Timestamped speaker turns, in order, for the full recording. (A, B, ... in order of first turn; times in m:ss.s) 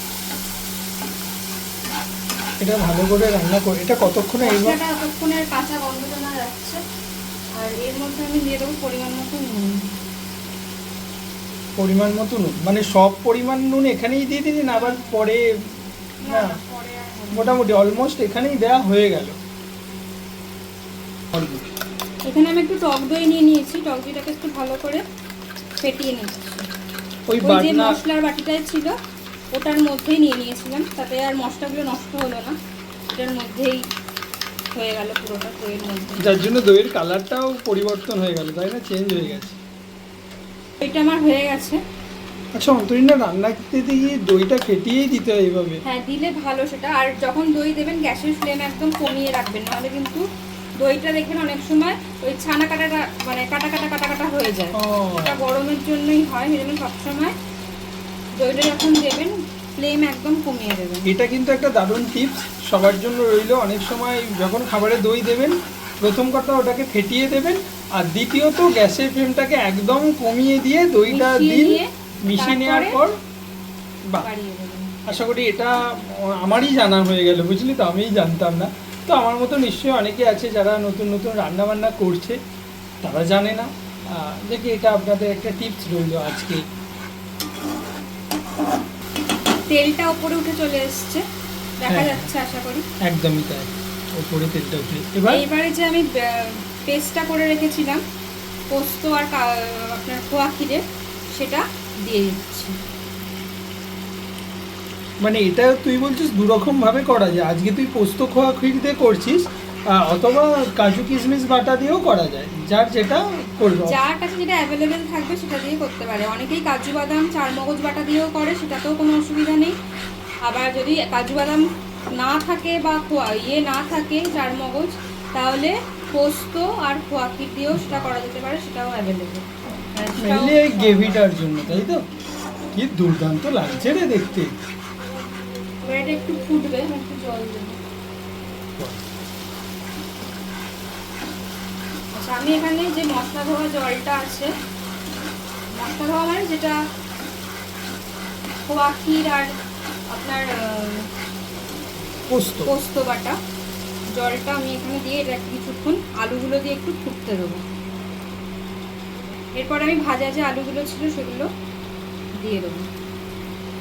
0:02.6-0:04.8 A
0:04.4-0:06.8 B
0:07.6-0:10.0 B
0:11.8-0:15.7 A
0:14.8-0:15.3 B
0:16.2-0:17.6 B
0:16.3-0:16.6 A
0:17.3-0:19.4 A
0:21.3-0:21.7 A
0:22.2-0:25.0 B
0:25.8-0:26.7 B
0:27.3-0:28.0 A
0:27.4-0:29.0 B
0:29.5-0:33.9 B
0:34.7-0:36.3 B
0:36.2-0:39.6 A
0:39.2-0:39.4 B
0:40.8-0:41.8 B
0:42.6-0:45.8 A
0:45.8-0:50.2 B
0:50.8-0:57.4 B
0:54.8-0:55.4 A
0:58.4-1:01.1 B
1:01.1-1:13.2 A
1:11.1-1:13.0 B
1:14.2-1:15.0 B
1:15.1-1:22.4 A
1:23.0-1:26.6 A
1:29.7-1:31.2 B
1:31.8-1:32.8 B
1:31.9-1:32.3 A
1:33.0-1:35.4 A
1:35.3-1:38.0 B
1:38.7-1:42.8 B
1:45.2-1:54.0 A
1:53.8-1:59.8 B
2:00.4-2:11.9 B
2:07.8-2:08.1 A
2:10.2-2:12.0 A
2:12.7-2:14.5 A
2:15.8-2:17.8 B
2:22.1-2:24.5 B
2:25.7-2:26.8 B
2:28.7-2:29.5 B
2:30.1-2:31.1 B
2:32.3-2:32.7 A
2:32.7-2:33.4 B
2:34.1-2:37.6 B
2:39.6-2:41.5 B
2:42.4-2:42.9 B